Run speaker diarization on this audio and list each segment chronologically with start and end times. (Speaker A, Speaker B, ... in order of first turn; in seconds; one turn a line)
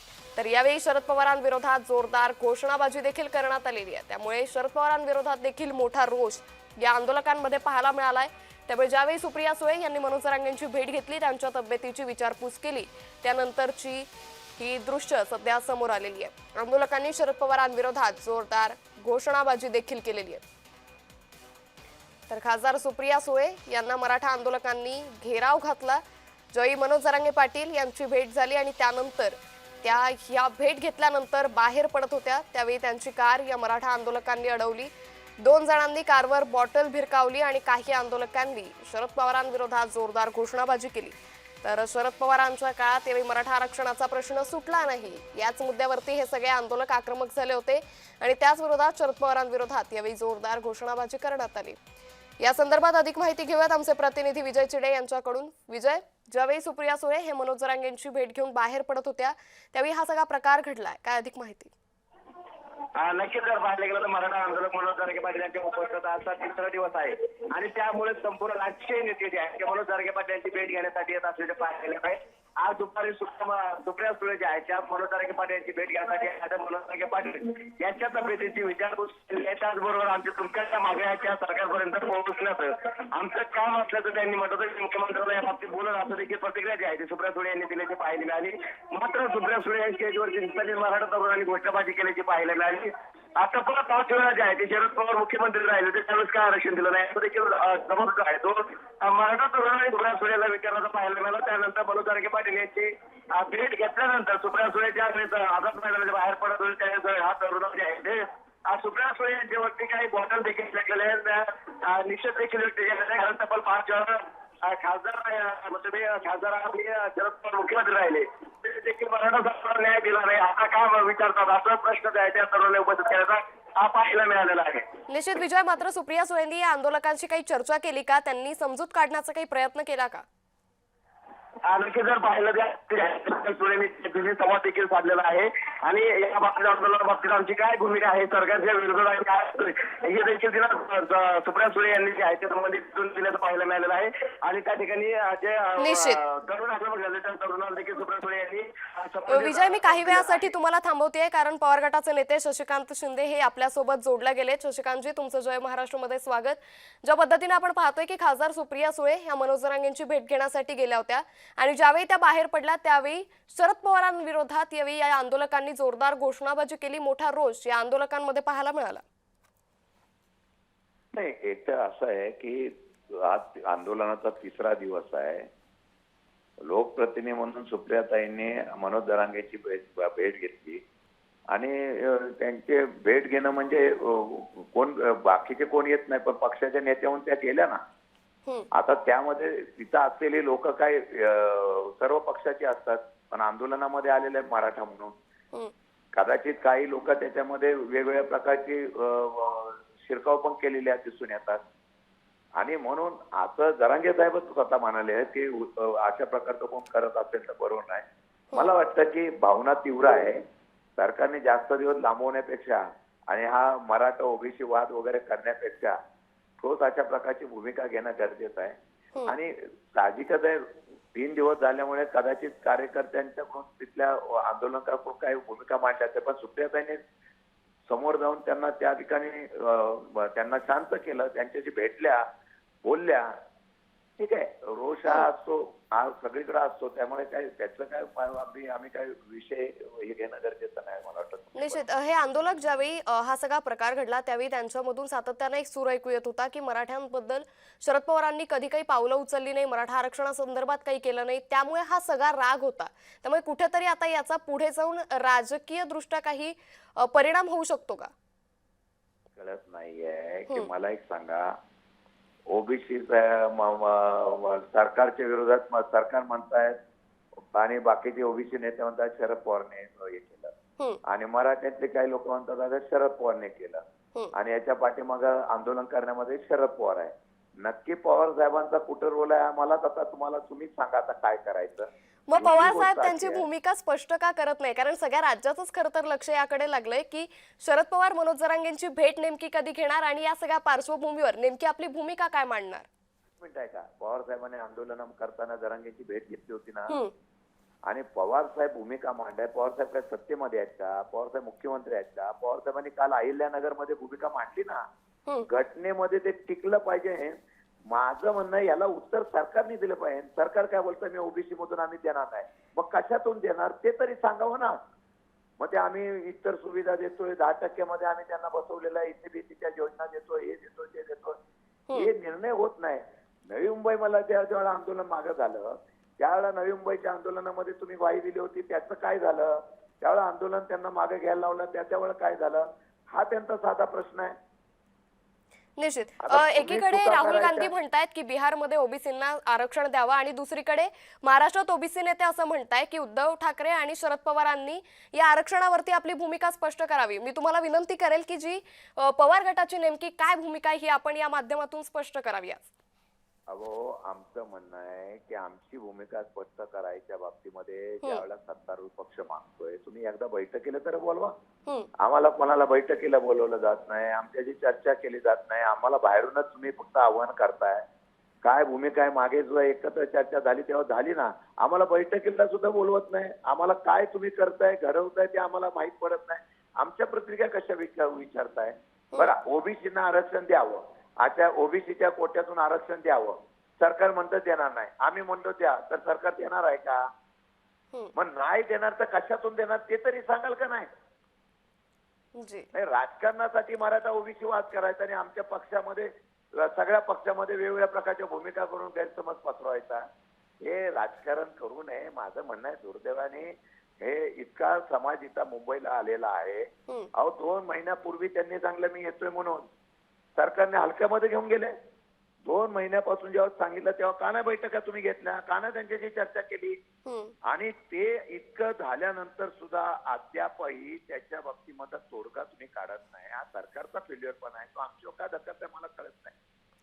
Speaker A: 0.3-20.4
Speaker A: 22.3-26.0
Speaker A: 26.5-51.8
Speaker A: 52.4-61.7
Speaker B: 63.0-124.9
Speaker A: 125.1-130.2
Speaker B: 131.7-150.4
Speaker A: 145.8-146.2
Speaker A: 149.3-169.0
Speaker C: 171.1-175.5
Speaker C: 176.6-180.8
Speaker C: 181.5-187.8
Speaker C: 188.7-195.1
Speaker C: 196.1-201.6
Speaker C: 202.6-210.4
Speaker C: 211.0-216.0
Speaker C: 216.6-227.0
Speaker C: 227.9-232.2
Speaker C: 232.8-233.3
Speaker C: 234.2-241.8
Speaker A: 241.6-258.1
Speaker C: 259.4-261.5
Speaker C: 262.5-266.8
Speaker C: 267.5-270.5
Speaker C: 271.1-273.8
Speaker C: 274.3-283.5
Speaker A: 282.3-292.9
Speaker C: 293.4-297.0
Speaker C: 297.9-304.8
Speaker C: 305.4-307.4
Speaker C: 307.9-314.8
Speaker C: 315.6-321.4
Speaker C: 321.9-334.3
Speaker A: 335.8-352.7
Speaker C: 336.2-337.7
Speaker C: 353.5-361.3
Speaker C: 362.0-367.8
Speaker C: 368.4-387.0
Speaker C: 388.1-390.9
Speaker A: 392.4-392.7
Speaker C: 392.7-400.0
Speaker C: 400.6-409.6
Speaker C: 410.4-411.7
Speaker C: 412.4-416.8
Speaker A: 417.0-417.3
Speaker C: 417.5-426.3